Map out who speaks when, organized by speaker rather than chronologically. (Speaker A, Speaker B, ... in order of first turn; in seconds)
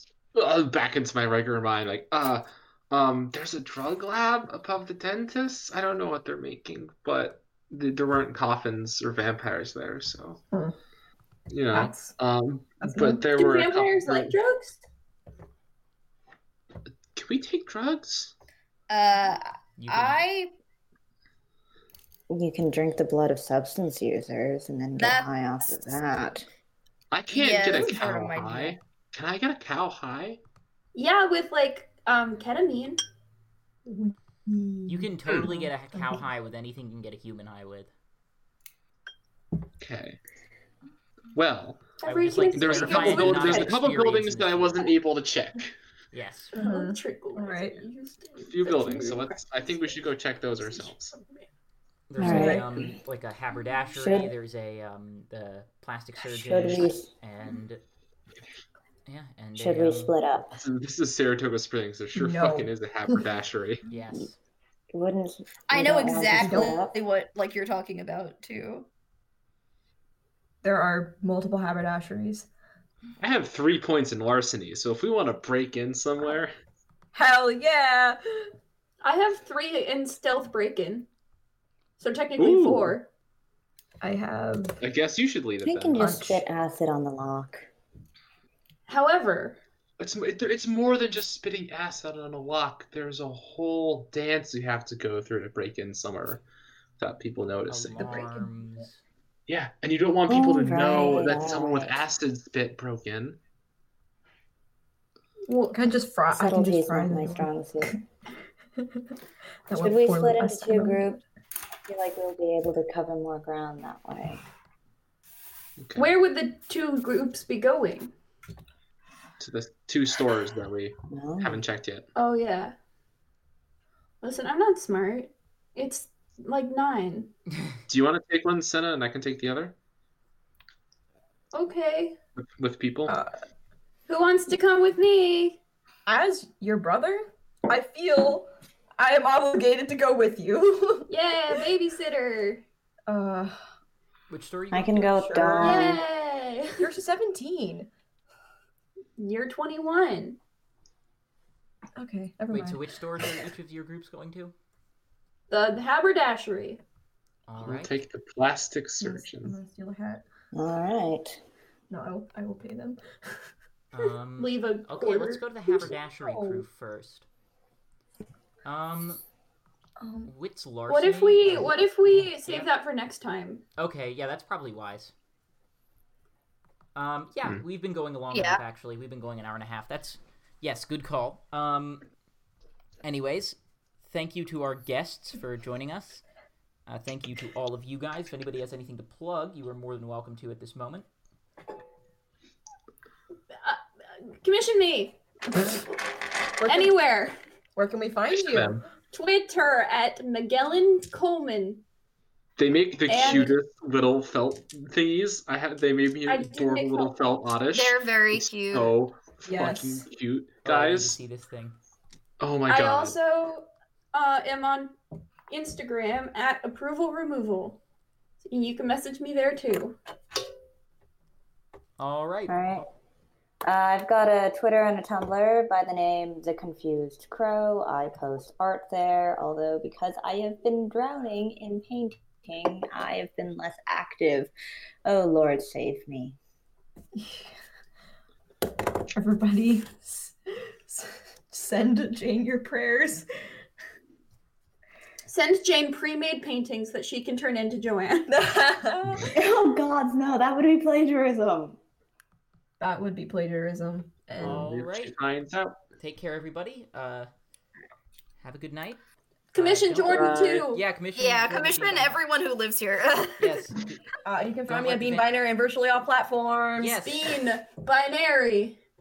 Speaker A: 0.3-10.4, 11.5-14.3, 17.1-18.3, 27.1-30.4, 35.3-35.5, 39.8-40.2, 41.4-41.9, 42.5-45.7, 48.5-51.1, 60.6-63.8, 73.2-76.5, 82.4-83.0, 84.8-86.1, 90.0-96.4, 97.0-98.2, 99.5-103.4, 115.8-116.1, 119.4-122.1, 127.9-129.7, 132.4-133.2, 157.6-159.6, 198.3-198.8, 202.6-211.2, 212.4-213.2, 254.4-255.8, 260.0-260.6
Speaker B: 11.7-12.2, 12.8-13.2, 33.9-36.2, 46.5-47.8, 52.2-52.8, 62.1-63.2, 66.3-66.8, 70.6-72.5, 77.1-78.5, 84.0-84.8, 86.0-86.4, 98.0-98.8, 105.6-107.9, 109.7-111.2, 133.1-133.3, 136.1-141.1, 143.1-143.6, 145.3-145.7, 146.8-147.9, 152.0-152.8, 159.0-160.2, 161.9-163.0, 166.2-166.6, 170.0-170.3, 195.5-195.8, 196.6-196.9, 197.8-198.8, 209.4-210.1, 237.2-237.5, 239.1-243.3, 248.3-249.4, 252.8-254.6, 264.2-267.0
Speaker C: 13.3-14.8, 30.9-33.0, 42.0-43.8, 46.5-50.0, 50.6-51.5, 79.0-81.1, 82.0-83.1, 88.9-89.6, 116.0-118.1, 122.2-122.8, 124.2-127.3, 131.5-132.2, 134.1-135.6, 141.1-142.6, 145.6-146.9, 149.2-150.4, 155.5-156.8, 164.4-165.4, 170.9-173.6, 194.4-195.2, 196.6-197.3, 199.1-201.8, 203.1-203.6, 206.3-207.2, 212.7-214.9, 215.5-217.8, 218.4-220.0, 245.3-248.3, 259.5-260.8, 267.0-268.8
Speaker D: 18.9-20.5, 25.0-26.1, 27.3-28.8, 65.7-68.9, 178.3-178.6, 207.7-208.9, 261.1-263.7
Speaker E: 19.8-20.3, 34.9-37.9, 42.0-44.9, 46.1-46.6, 52.1-57.8, 59.1-60.1, 63.9-64.4, 97.7-99.0, 144.3-146.0, 152.5-154.5, 157.5-158.0, 163.9-167.3, 168.7-169.2, 170.2-172.7, 173.8-175.1, 176.9-182.0, 183.0-186.2, 186.9-191.1, 210.7-211.8, 222.0-222.9, 254.4-255.2, 256.0-257.3, 258.4-259.0, 259.5-262.2, 263.4-264.1, 264.7-265.3, 266.8-267.3
Speaker F: 22.3-26.5, 52.2-52.9, 54.0-54.3, 56.2-57.1, 59.6-60.6, 64.9-66.9, 85.6-87.7, 100.3-102.0, 106.3-108.0, 109.8-111.2, 111.9-114.4, 121.1-121.6, 144.7-146.0, 160.5-161.4, 222.5-222.8, 223.6-234.5, 235.1-236.4, 249.3-251.8